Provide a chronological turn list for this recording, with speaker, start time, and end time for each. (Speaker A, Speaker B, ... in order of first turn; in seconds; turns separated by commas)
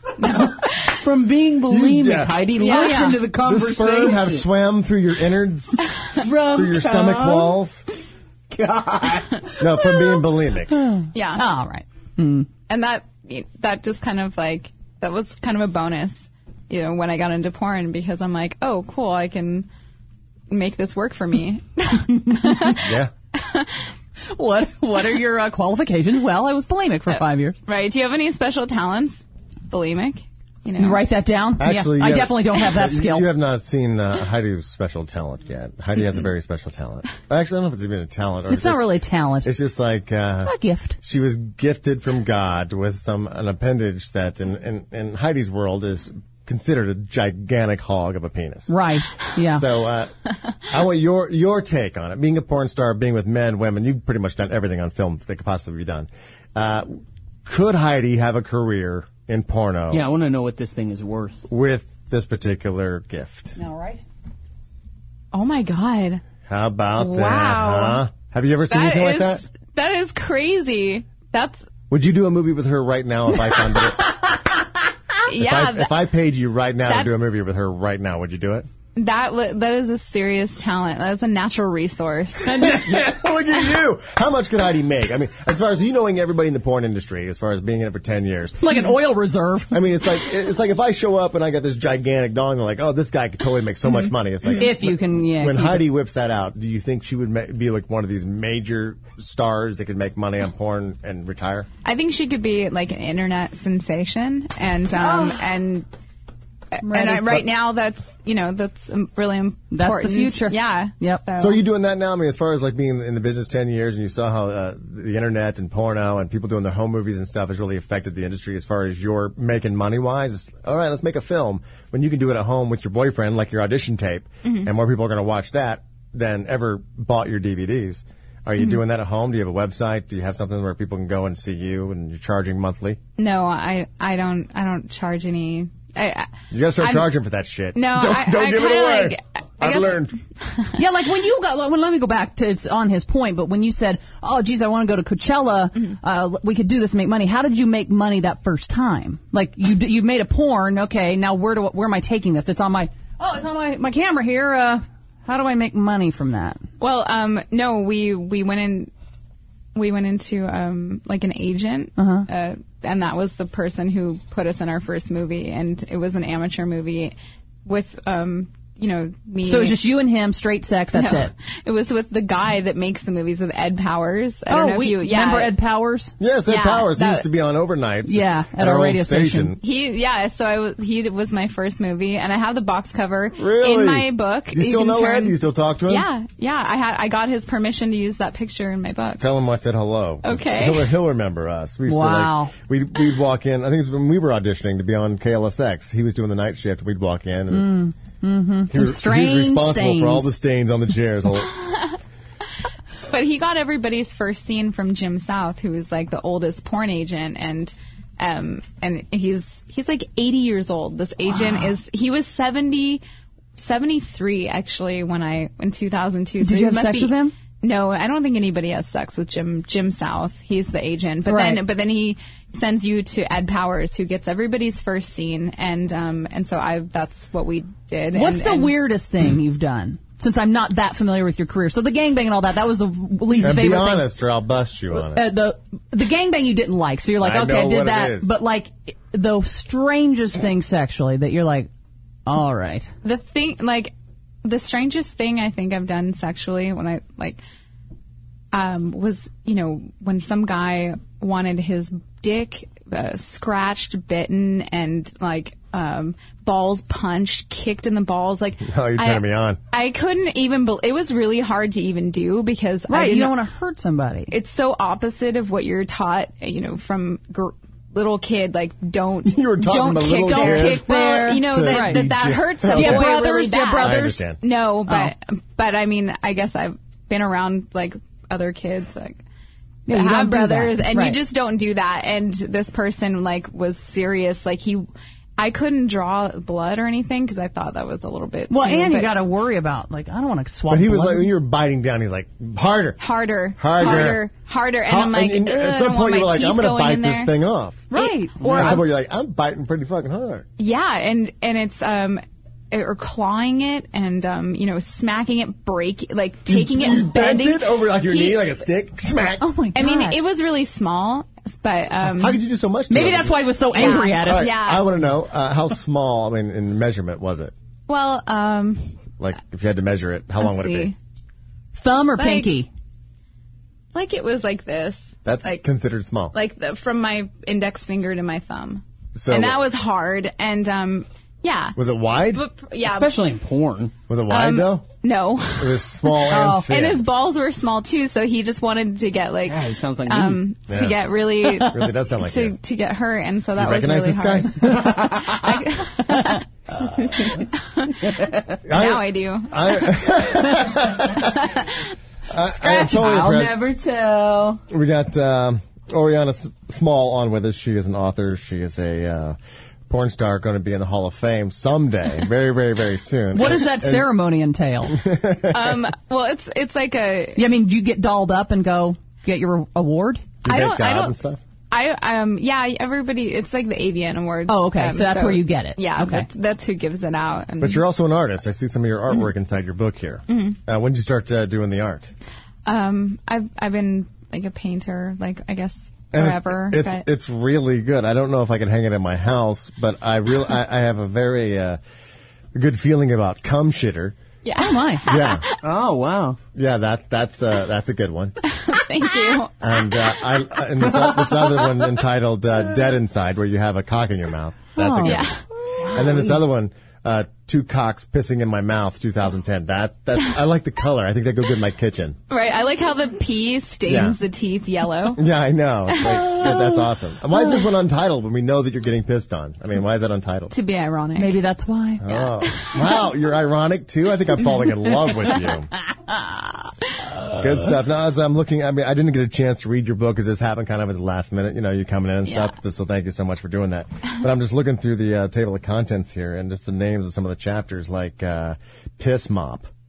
Speaker A: 0.2-0.9, Speaker B: 0.3-4.4, Speaker C: 1.7-2.5, Speaker A: 2.6-3.1, Speaker D: 2.6-3.2, Speaker C: 3.4-5.9, Speaker B: 6.2-7.6, Speaker C: 6.5-7.8, Speaker B: 8.5-9.6, Speaker C: 9.6-10.7, Speaker D: 10.7-12.5, Speaker A: 11.1-11.4, Speaker A: 12.7-19.7, Speaker A: 20.5-23.7, Speaker D: 22.2-22.8, Speaker C: 22.8-23.1, Speaker D: 24.3-27.6, Speaker A: 27.6-31.0, Speaker D: 30.8-33.3, Speaker C: 31.6-38.9, Speaker D: 38.5-39.5, Speaker C: 39.4-48.7, Speaker D: 40.4-41.0, Speaker D: 48.7-49.6, Speaker C: 49.5-50.1, Speaker C: 50.7-60.0, Speaker B: 59.9-61.4, Speaker C: 61.5-63.5, Speaker D: 63.5-64.0, Speaker A: 65.3-66.2, Speaker C: 66.4-69.4, Speaker A: 67.0-68.0, Speaker A: 68.7-71.7, Speaker C: 71.9-74.1, Speaker A: 75.3-75.9, Speaker C: 75.3-78.7, Speaker A: 79.0-82.6, Speaker D: 82.5-82.8, Speaker C: 82.5-88.7, Speaker D: 88.6-89.8, Speaker C: 89.7-101.7, Speaker D: 94.5-95.9, Speaker A: 101.8-105.9, Speaker D: 105.0-105.4, Speaker A: 106.7-111.6, Speaker D: 106.8-107.4, Speaker D: 109.7-111.2, Speaker C: 111.4-133.0, Speaker A: 124.4-124.7, Speaker A: 133.2-137.1, Speaker C: 136.5-140.1, Speaker A: 137.7-140.0, Speaker D: 140.8-156.6, Speaker A: 156.8-158.9, Speaker A: 159.7-167.1, Speaker D: 162.0-162.3, Speaker A: 167.7-169.8, Speaker D: 169.4-171.3, Speaker A: 170.9-175.5, Speaker D: 174.5-176.1, Speaker C: 176.2-179.6, Speaker A: 176.4-177.2, Speaker D: 178.0-179.5, Speaker A: 179.6-189.2, Speaker C: 183.4-186.1, Speaker C: 189.2-197.8, Speaker A: 190.2-190.9, Speaker D: 191.9-192.5, Speaker D: 197.5-200.3, Speaker C: 198.7-201.5, Speaker A: 203.1-213.0, Speaker A: 213.6-228.7, Speaker D: 216.4-217.3, Speaker D: 221.2-221.6, Speaker D: 228.1-234.1, Speaker C: 233.4-235.2, Speaker D: 234.9-241.7, Speaker C: 237.2-238.3, Speaker D: 242.3-242.9, Speaker A: 243.0-243.9, Speaker A: 244.4-247.4, Speaker A: 248.5-263.4, Speaker C: 258.6-259.6, Speaker D: 262.9-264.3, Speaker A: 264.3-279.2, Speaker C: 269.2-273.1, Speaker D: 270.2-272.1, Speaker D: 272.7-274.3, Speaker C: 273.8-274.4, Speaker D: 274.9-275.1, Speaker D: 279.9-281.2, Speaker A: 279.9-284.9, Speaker A: 285.4-289.2, Speaker D: 288.5-291.3, Speaker C: 290.7-293.0, Speaker A: 293.0-297.3, Speaker C: 293.6-294.3, Speaker C: 294.9-297.9, Speaker D: 297.9-298.8, Speaker A: 297.9-298.8, Speaker B: 298.4-298.8, Speaker C: 298.5-300.4, Speaker A: 300.6-308.5, Speaker C: 306.5-309.4, Speaker D: 309.4-310.2, Speaker A: 309.7-312.4, Speaker C: 312.0-317.5, Speaker D: 312.9-314.5, Speaker A: 313.7-314.9, Speaker A: 317.9-319.1, Speaker C: 319.2-320.9, Speaker A: 320.4-320.9, Speaker D: 321.7-322.7, Speaker A: 322.2-322.5, Speaker A: 323.9-325.6, Speaker C: 325.2-326.3, Speaker A: 326.3-331.8, Speaker C: 329.1-329.6, Speaker C: 331.8-332.4, Speaker A: 332.3-333.2, Speaker B: 332.8-333.9, Speaker C: 334.1-334.9, Speaker A: 334.3-346.4, Speaker C: 335.6-337.0, Speaker D: 336.3-336.7, Speaker B: 339.5-340.4, Speaker C: 340.7-341.0, Speaker C: 341.6-342.6, Speaker C: 343.5-344.8, Speaker B: 344.6-345.4, Speaker A: 347.8-348.0, Speaker C: 348.6-351.4, Speaker A: 348.7-350.1, Speaker A: 351.3-351.7, Speaker C: 352.3-353.6, Speaker B: 352.6-354.6, Speaker C: 354.7-359.4, Speaker C: 359.9-364.1, Speaker D: 363.3-365.0, Speaker C: 364.9-365.8, Speaker A: 365.5-367.4, Speaker D: 367.4-370.2, Speaker C: 370.4-371.4, Speaker A: 370.4-371.1, Speaker A: 371.7-377.8, Speaker D: 374.5-376.3, Speaker C: 377.6-382.1, Speaker A: 380.3-380.6, Speaker A: 382.6-387.0, Speaker C: 386.1-391.8, Speaker C: 392.5-394.2, Speaker A: 394.4-395.6, Speaker D: 394.6-395.1, Speaker C: 395.1-395.4, Speaker B: 395.6-396.4, Speaker C: 396.5-398.4, Speaker A: 398.6-399.6, Speaker C: 399.6-405.3, Speaker D: 404.8-405.2, Speaker A: 405.0-405.4, Speaker C: 405.9-412.2, Speaker A: 412.3-415.2, Speaker C: 413.9-414.2, Speaker C: 415.1-420.5, Speaker A: 415.9-416.6, Speaker A: 420.5-421.4, Speaker D: 421.2-422.2, Speaker C: 422.0-425.7, Speaker C: 427.3-439.7